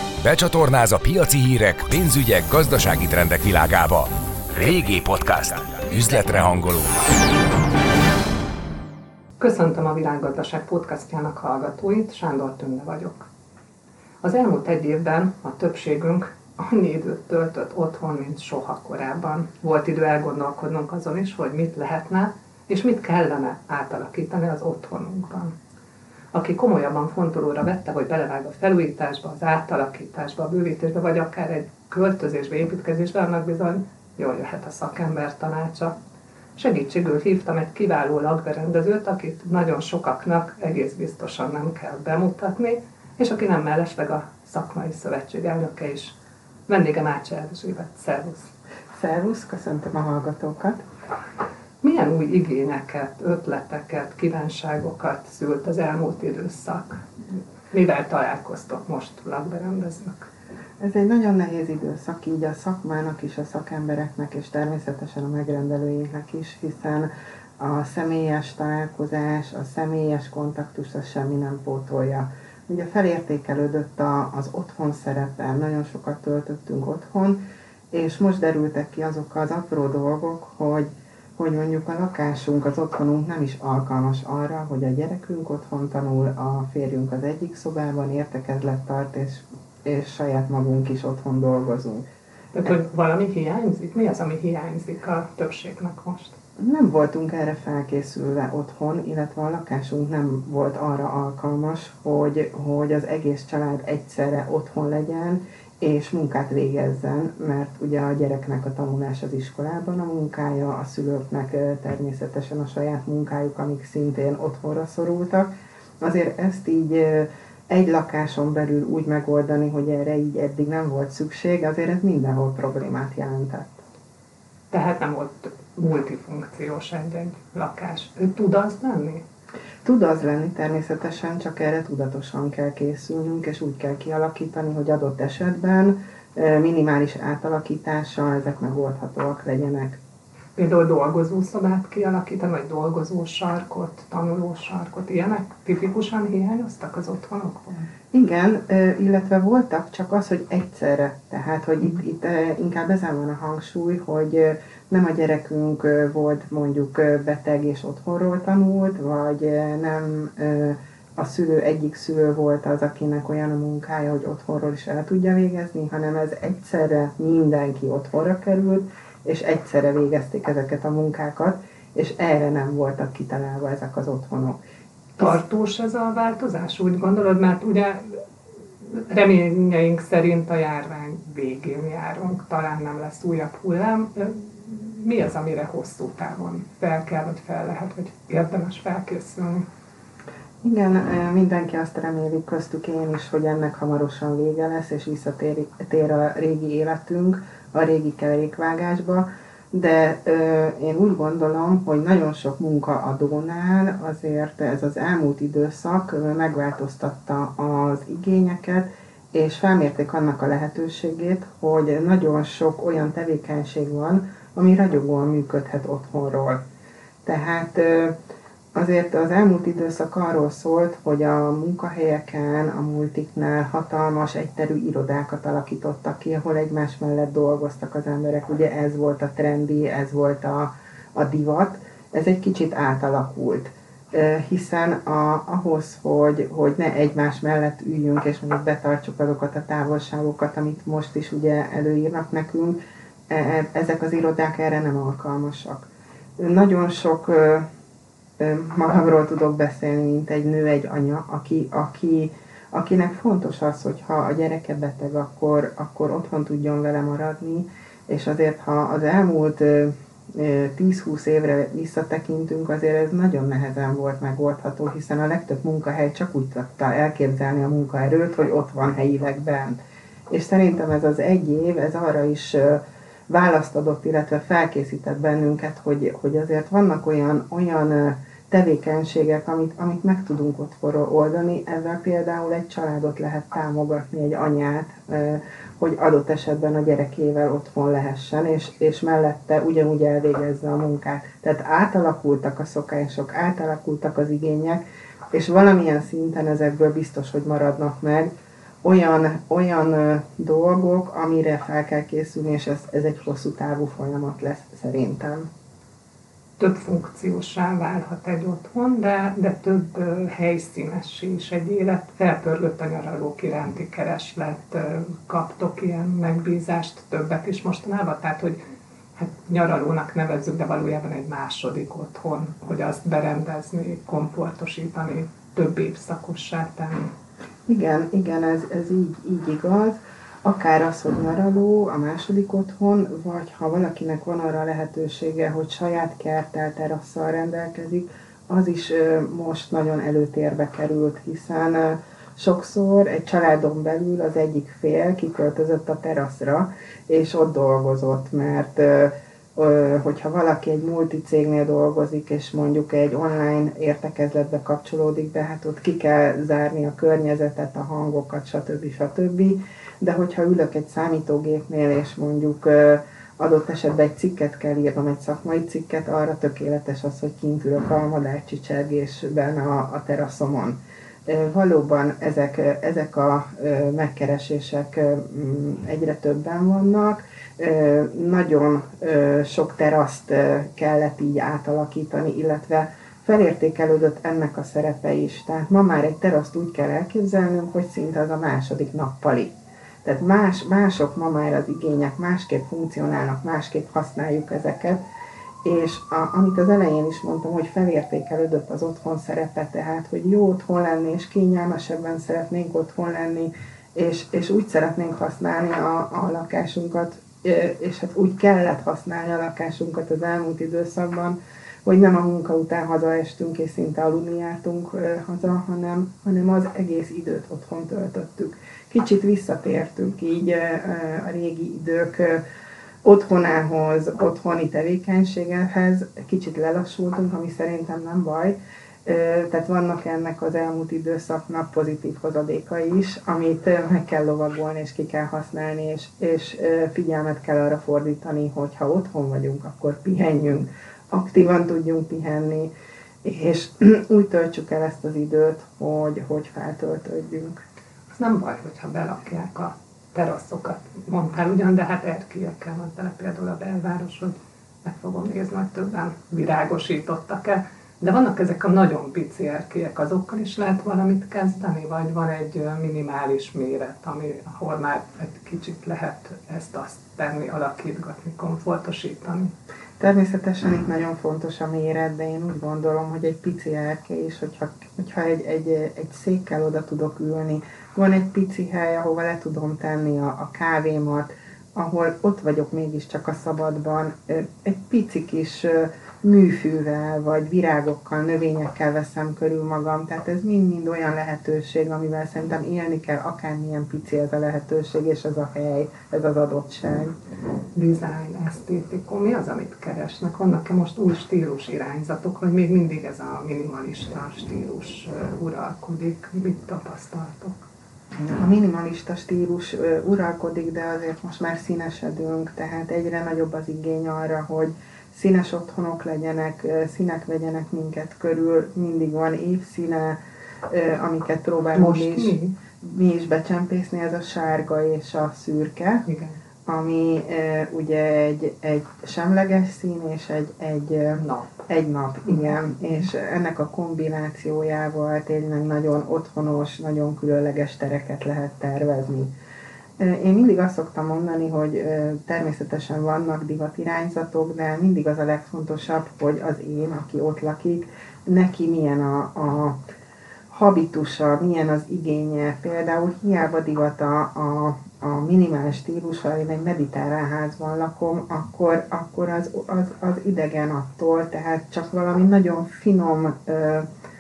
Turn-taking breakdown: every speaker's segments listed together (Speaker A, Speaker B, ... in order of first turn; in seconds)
Speaker A: 0.2-7.0
Speaker B: 9.4-13.3, 14.2-25.5, 26.3-36.0, 36.5-46.2, 46.7-48.5, 51.8-57.0, 57.7-60.3, 92.5-96.3, 124.7-129.2, 140.6-147.9, 175.2-178.2, 178.8-189.7, 306.6-318.6, 319.2-327.1, 448.1-469.5, 497.7-507.6, 521.8-522.5, 526.0-526.4, 531.2-531.5
Speaker C: 49.0-50.8, 60.8-77.4, 77.9-92.0, 96.6-123.8, 129.8-140.0, 148.1-174.6, 190.6-216.6, 217.2-218.2, 218.7-242.8, 243.3-247.7, 248.4-269.8, 270.3-294.8, 295.3-298.3, 298.8-305.5, 327.7-389.5, 390.0-395.0, 395.6-422.4, 423.0-442.7, 443.2-447.6, 470.0-497.1, 508.2-526.0, 526.7-539.3, 540.0-549.8, 550.5-563.9